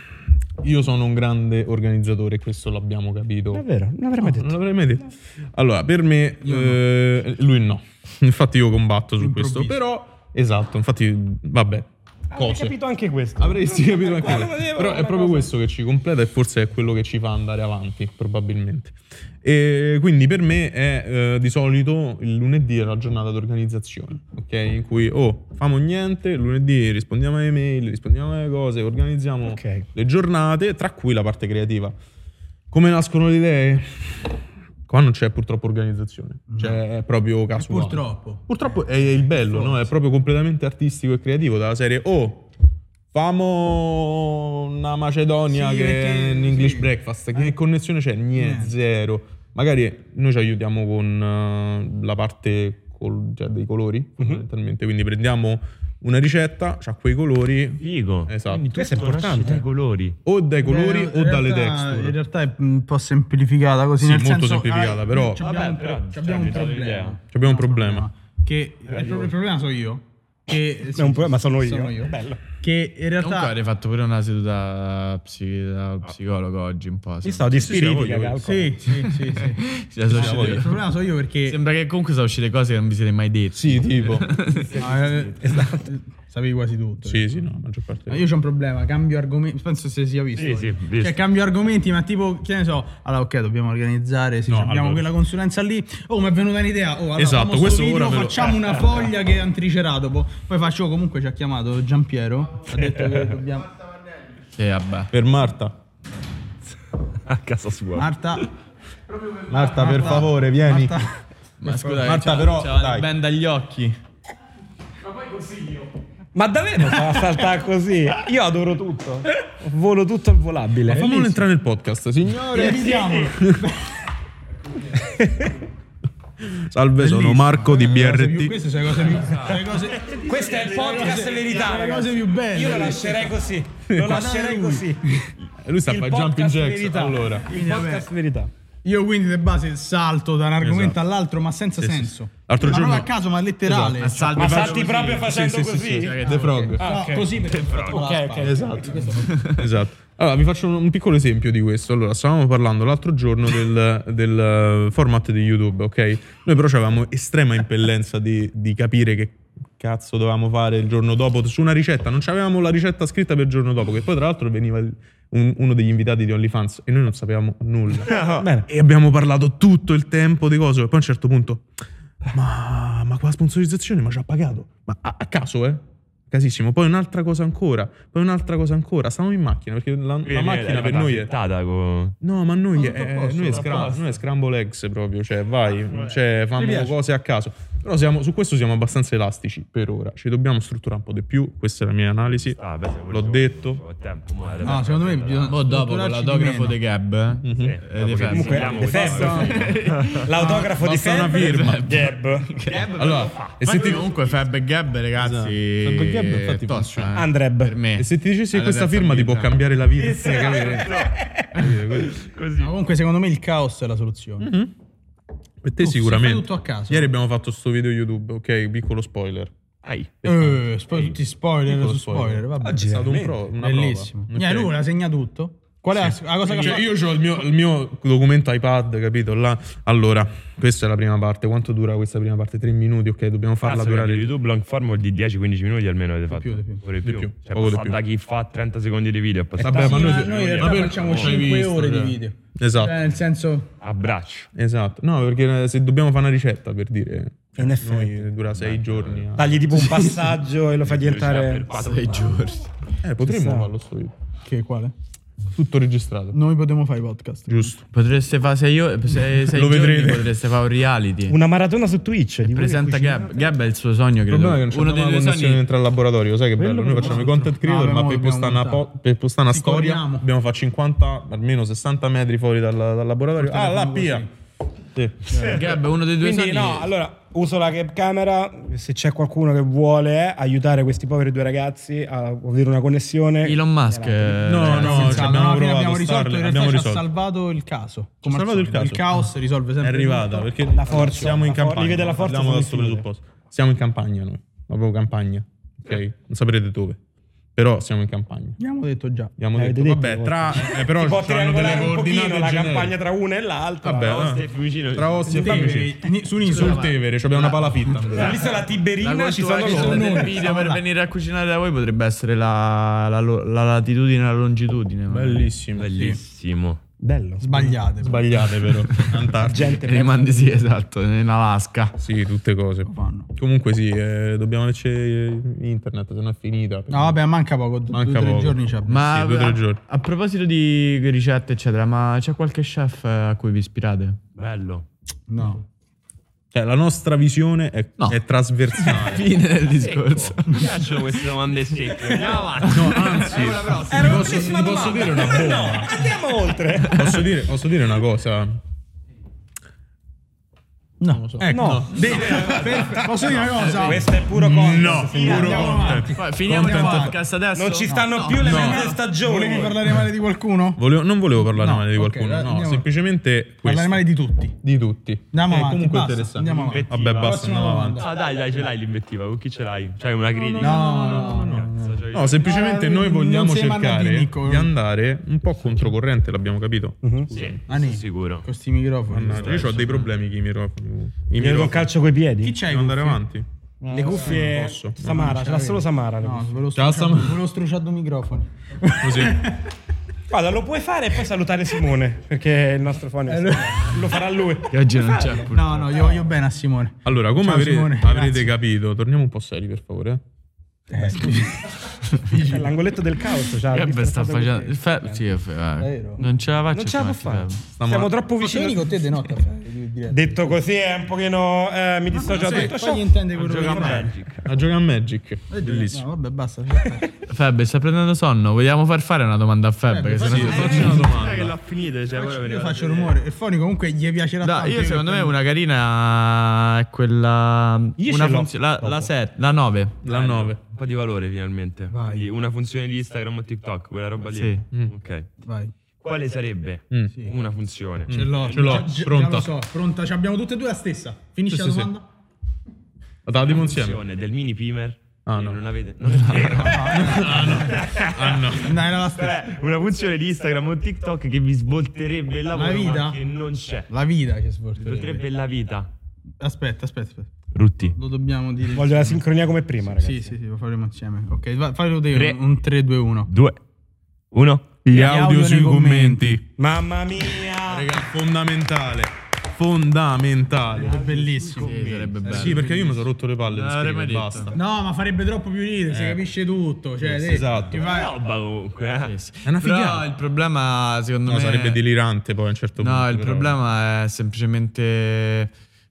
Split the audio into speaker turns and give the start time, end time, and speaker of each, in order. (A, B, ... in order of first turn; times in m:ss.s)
0:00.6-0:03.6 A
0:03.5-0:04.6 B
0:04.2-0:12.8 A
0:06.4-0:06.8 C
0:09.2-0:09.8 C
0:12.3-0:15.5 B
0:13.4-0:32.0 A
0:29.4-0:29.8 B
0:32.7-0:34.4 A
0:34.9-0:42.5 A
0:36.5-0:36.8 C
0:37.6-0:39.9 C
0:43.1-0:58.6 A
0:45.5-0:47.6 C
0:48.4-0:48.7 C
0:57.8-1:00.2 D
0:58.7-0:59.6 B
1:00.2-1:02.2 A
1:00.6-1:13.5 C
1:04.0-1:05.4 A
1:05.4-1:07.2 D
1:07.3-1:08.1 A
1:08.9-1:09.3 D
1:10.9-1:12.4 B
1:13.2-1:17.7 E
1:17.2-1:18.7 B
1:17.5-1:18.4 A
1:18.4-1:21.6 C
1:18.9-1:20.9 E
1:20.1-1:20.7 A
1:21.4-1:24.7 E
1:23.5-1:24.3 A
1:24.5-1:25.5 D
1:24.8-1:27.5 C
1:25.5-1:25.8 B
1:27.0-1:28.3 A
1:28.1-1:43.7 C
1:30.3-1:31.2 D
1:34.4-1:35.1 A
1:37.2-1:38.8 A
1:44.6-1:45.1 E
1:45.1-1:45.7 A
1:47.1-1:48.1 D
1:48.0-1:48.5 C
1:49.5-1:51.0 A
1:49.7-1:52.3 C
1:51.6-1:54.0 E
1:52.0-1:53.1 A
1:56.3-2:01.4 B
2:00.8-2:03.6 A
2:02.5-2:03.9 C
2:02.6-2:03.2 B
2:04.9-2:05.5 B
2:06.4-2:08.6 A
2:07.0-2:10.1 C
2:09.2-2:11.1 D
2:10.1-2:15.3 B
2:10.7-2:13.3 C
2:13.9-2:14.3 A
2:14.0-2:14.9 C
2:15.6-2:17.5 A
2:15.8-2:18.5 B
2:17.5-2:18.1 C
2:18.8-2:24.6 C
2:20.6-2:21.0 A
2:21.8-2:23.1 A
2:23.7-2:25.3 E
2:24.3-2:27.3 B
2:24.4-2:26.9 A
2:25.9-2:26.8 E
2:26.2-2:29.4 C
2:27.4-2:28.0 D
2:27.9-2:28.8 B
2:28.4-2:51.6 A
2:29.3-2:29.6 E
2:48.0-2:48.6 B
2:52.3-3:01.3 A
3:00.2-3:02.2 D
3:02.2-3:13.8 A
3:02.8-3:03.9 C
3:03.4-3:04.2 D
3:06.6-3:06.9 C
3:12.2-3:15.6 D
3:14.6-3:16.8 C
3:15.5-3:20.7 E
3:17.4-3:17.8 A
3:17.5-3:20.2 D
3:18.3-3:22.5 B
3:18.9-3:19.7 A
3:20.8-3:22.0 A
3:21.3-3:22.9 E
3:22.6-3:24.4 D
3:23.0-3:24.1 A
3:23.6-3:29.6 E
3:25.2-3:27.2 A
3:27.1-3:27.8 B
3:28.0-3:32.2 A
3:29.9-3:31.2 D
3:32.0-3:32.7 D
3:32.6-3:34.5 C
3:34.4-3:34.7 A
3:35.6-3:39.5 A
3:35.8-3:37.1 C
3:39.8-3:40.1 D
3:40.2-3:40.7 A
3:40.2-3:43.0 C
3:41.6-3:44.8 A
3:42.6-3:43.4 B
3:43.5-3:47.0 C
3:45.9-3:54.3 A
3:53.6-4:01.4 D
3:56.3-3:56.8 C
3:57.0-3:58.0 A
3:59.6-4:03.0 A
3:59.6-4:00.0 B
3:59.7-4:03.7 C
4:03.8-4:04.5 D
4:04.5-4:09.8 A
4:07.6-4:08.2 B
4:08.5-4:09.5 D
4:09.4-4:11.7 B
4:10.8-4:12.4 D
4:11.7-4:12.7 E
4:13.0-4:14.1 A
4:13.2-4:13.7 B
4:14.4-4:14.9 C
4:15.5-4:16.4 A
4:16.3-4:17.7 C
4:17.5-4:17.8 A
4:17.9-4:21.4 E
4:19.5-4:20.3 A
4:21.3-4:23.4 B
4:22.5-4:25.6 E
4:24.3-4:34.3 A
4:26.6-4:27.3 B
4:26.9-4:28.9 C
4:29.5-4:30.2 C
4:33.4-4:34.3 C
4:34.9-4:35.4 A
4:35.3-4:36.9 E
4:36.1-4:44.8 B
4:43.4-4:45.4 E
4:44.4-4:47.0 A
4:44.6-4:51.6 C
4:48.2-4:49.2 A
4:49.8-4:57.0 A
4:50.7-4:53.0 B
4:57.6-4:58.6 A
4:58.6-4:59.4 C
4:59.4-5:03.0 A
4:59.5-5:04.2 B
5:03.8-5:08.5 A
5:04.0-5:05.7 D
5:05.3-5:08.2 C
5:06.4-5:06.9 E
5:08.1-5:10.4 B
5:09.0-5:15.5 E
5:09.6-5:10.8 C
5:15.1-5:16.1 A
5:15.8-5:16.8 D
5:17.0-5:17.8 B
5:17.4-5:18.5 C
5:18.0-5:19.8 A
5:18.9-5:19.2 E
5:19.4-5:20.5 B
5:19.8-5:22.0 E
5:22.0-5:27.2 A
5:22.8-5:23.3 C
5:26.9-5:29.0 C
5:27.9-5:29.8 A
5:28.8-5:34.2 E
5:34.4-5:34.8 D
5:35.3-5:35.6 C
5:36.5-5:39.3 A
5:38.7-5:41.1 E
5:39.7-5:44.3 D
5:42.0-5:43.2 E
5:42.6-5:46.2 A
5:43.7-5:47.2 B
5:46.8-5:48.6 A
5:51.0-5:57.2 C
5:51.1-5:52.3 A
5:51.5-5:51.9 B
5:52.1-5:53.4 D
5:52.4-5:54.0 E
5:53.7-5:56.0 B
5:54.3-5:57.2 A
5:55.7-5:59.0 E
5:57.5-5:59.8 B
5:57.9-6:00.8 C
5:58.4-5:58.8 A
6:00.8-6:04.0 A
6:01.4-6:02.9 C
6:03.6-6:04.6 C
6:04.6-6:08.0 A
6:05.3-6:08.1 C
6:06.5-6:12.6 D
6:10.5-6:14.7 C
6:10.6-6:17.6 A
6:17.0-6:17.3 B
6:17.3-6:18.5 D
6:17.7-6:19.9 C
6:19.1-6:21.9 A
6:19.2-6:20.1 D
6:21.3-6:22.6 B
6:22.4-6:23.2 C
6:22.6-6:23.5 A
6:23.8-6:24.4 E
6:23.9-6:26.6 B
6:24.1-6:25.4 A
6:25.0-6:29.7 C
6:26.7-6:27.4 A
6:29.0-6:29.4 A
6:30.3-6:35.5 B
6:33.3-6:34.2 C
6:34.7-6:36.2 E
6:35.5-6:38.5 C
6:37.0-6:40.2 A
6:40.9-6:42.8 C
6:42.4-6:45.2 B
6:43.6-6:47.6 E
6:45.8-6:46.2 C
6:46.7-6:49.0 B
6:47.8-6:48.1 A
6:48.4-6:50.6 C
6:50.1-6:54.0 B
6:52.1-6:54.1 C
6:53.3-6:54.4 D
6:54.4-6:56.0 A
6:55.5-6:57.1 C
6:57.3-7:01.0 E
6:59.9-7:01.2 C
7:00.2-7:01.5 A
7:00.4-7:03.2 D
7:02.2-7:05.3 C
7:04.4-7:10.0 E
7:08.0-7:08.9 B
7:10.0-7:10.6 A
7:10.0-7:15.3 D
7:11.9-7:12.3 C
7:14.3-7:14.6 E
7:15.4-7:15.7 C
7:16.0-7:18.9 D
7:18.1-7:19.5 A
7:18.1-7:22.0 C
7:21.5-7:21.9 A
7:23.2-7:24.0 A
7:23.4-7:33.9 D
7:25.2-7:25.6 A
7:26.2-7:26.6 E
7:26.6-7:27.6 C
7:26.9-7:28.8 A
7:28.6-7:29.4 C
7:32.5-7:33.2 C
7:33.9-7:35.2 C
7:34.8-7:35.9 D
7:36.4-7:37.3 C
7:37.5-7:38.0 D
7:37.9-7:39.2 C
7:38.7-7:40.4 B
7:40.0-7:43.3 C
7:42.1-7:42.4 D
7:43.2-7:43.6 D
7:44.3-7:44.7 D
7:44.8-7:46.4 A
7:44.9-7:46.4 C
7:46.6-7:48.0 B
7:47.6-7:51.1 A
7:50.8-7:53.1 C
7:50.8-7:51.8 D
7:51.5-7:52.6 E
7:52.3-7:54.6 A
7:53.5-7:54.5 E
7:54.5-7:58.1 C
7:57.0-7:57.8 A
7:57.7-7:59.1 D
7:59.0-8:01.8 E
7:59.4-8:00.1 A
8:01.2-8:03.6 A
8:02.8-8:05.5 E